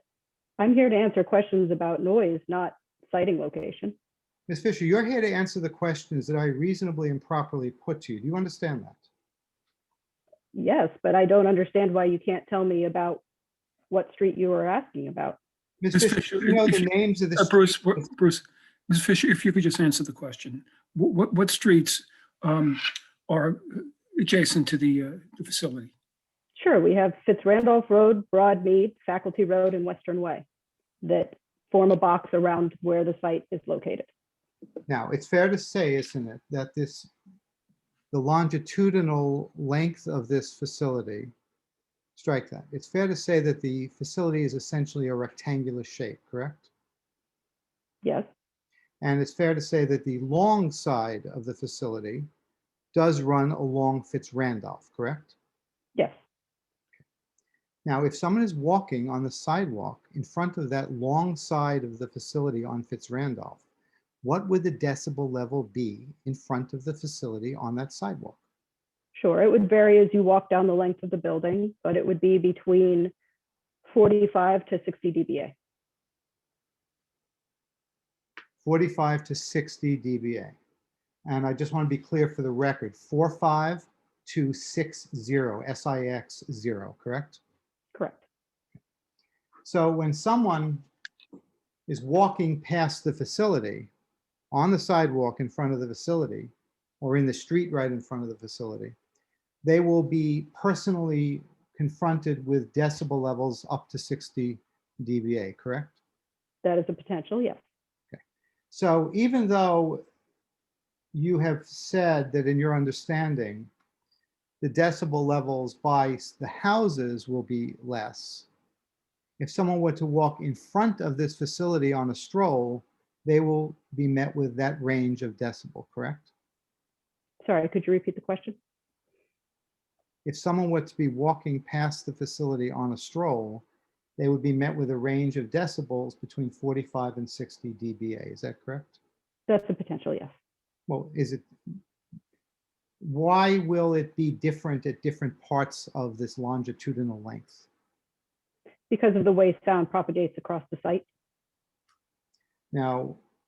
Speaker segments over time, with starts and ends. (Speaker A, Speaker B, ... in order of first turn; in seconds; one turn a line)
Speaker A: 0.6-4.0
Speaker B: 4.5-9.0
Speaker A: 10.5-13.2
Speaker A: 13.9-15.4
Speaker B: 15.8-17.7
Speaker C: 15.9-25.9
Speaker A: 26.6-30.4
Speaker A: 31.0-34.1
Speaker B: 34.9-37.1
Speaker B: 38.1-41.3
Speaker B: 42.1-46.7
Speaker A: 48.0-48.3
Speaker B: 49.0-52.3
Speaker B: 52.9-55.3
Speaker B: 57.8-63.6
Speaker B: 64.2-68.4
Speaker A: 69.1-73.1
Speaker A: 73.8-75.5
Speaker B: 78.6-80.5
Speaker B: 81.2-87.4
Speaker A: 87.9-88.2
Speaker B: 89.6-90.8
Speaker B: 91.9-93.9
Speaker B: 94.5-98.9
Speaker B: 99.6-106.0
Speaker A: 106.6-107.6
Speaker B: 108.7-110.0
Speaker B: 111.1-113.7
Speaker B: 114.6-118.5
Speaker B: 119.4-126.3
Speaker A: 127.4-128.6
Speaker B: 130.2-133.6
Speaker B: 134.2-139.0
Speaker A: 139.5-140.3
Speaker B: 140.9-141.5
Speaker B: 143.0-147.6
Speaker A: 148.9-151.1
Speaker B: 152.7-153.2